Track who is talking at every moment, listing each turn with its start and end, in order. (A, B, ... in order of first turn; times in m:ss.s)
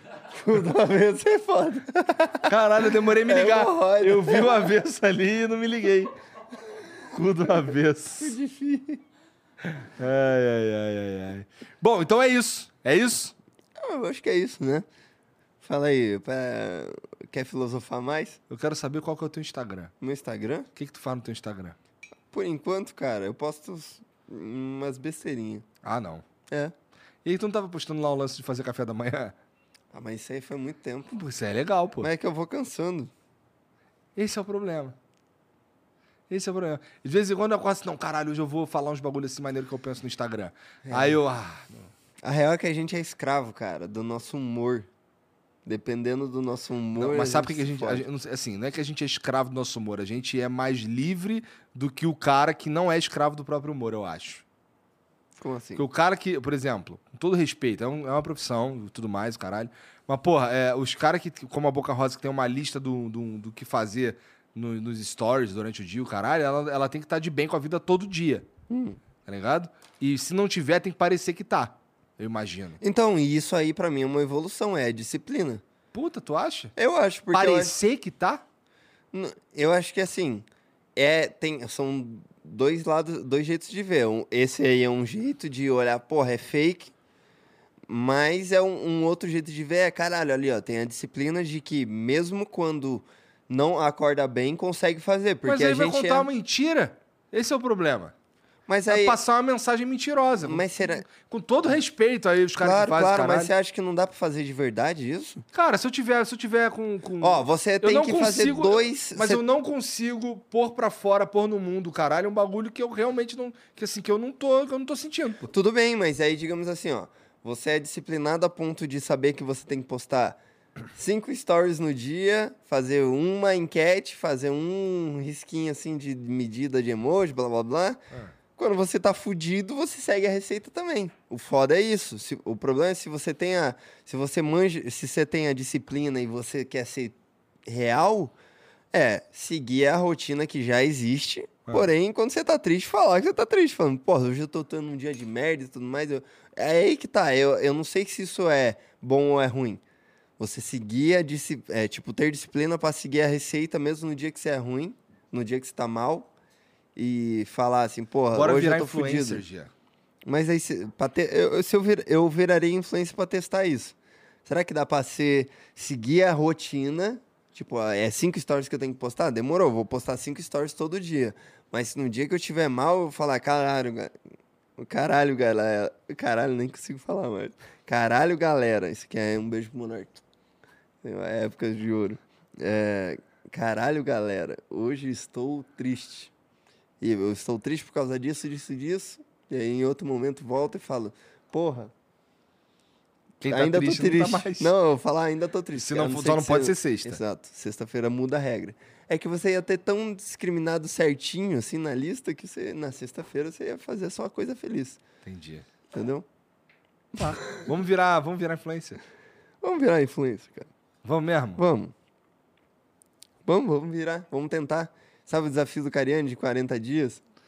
0:00.3-0:02.5 A
0:02.5-0:06.1 B
0:03.2-0:04.7 A
0:07.0-0:08.4 B
0:08.2-0:09.0 A
0:09.6-0:13.3 B
0:13.8-0:14.8 A
0:15.6-0:18.4 A
0:18.5-0:19.9 B
0:20.0-0:20.7 A
0:20.8-0:21.8 B
0:22.3-0:25.6 A
0:25.8-0:26.2 B
0:27.2-0:29.3 B
0:29.9-0:31.2 A
0:31.1-0:32.1 B
0:32.0-0:33.1 A
0:34.2-0:34.9 B
0:36.3-0:41.9 B
0:40.8-0:41.2 A
0:42.2-0:44.9 A
0:45.6-0:48.0 A
0:47.0-0:54.4 B
0:55.4-0:55.8 A
0:55.8-1:08.5 B
1:08.7-1:09.0 A
1:09.2-1:12.8 B
1:12.8-1:15.6 A
1:15.9-1:16.7 B
1:16.8-1:17.7 A
1:17.3-1:18.4 B
1:19.1-1:26.9 A
1:27.9-1:36.3 A
1:35.4-1:38.1 B
1:38.7-1:39.2 A
1:38.9-1:43.5 B
1:40.4-1:41.0 A
1:42.6-1:45.4 A
1:45.5-1:55.5 B
1:47.2-1:49.4 A
1:55.5-2:00.4 A
2:00.9-2:08.0 A
2:08.5-2:18.3 A
2:18.9-2:29.8 A
2:30.4-2:36.3 A
2:37.0-2:39.4 A
2:38.3-2:39.7 B
2:40.2-2:54.1 A
2:54.8-3:00.2 A
3:01.0-3:06.3 A
3:07.0-3:11.9 A
3:13.4-3:14.7 B
3:13.4-3:25.0 A
3:15.7-3:17.2 B
3:25.2-3:25.6 B
3:25.9-3:26.2 A
3:27.2-3:29.0 B
3:29.6-3:30.7 A
3:31.0-3:31.6 B
3:31.6-3:31.9 A
3:33.4-3:37.2 A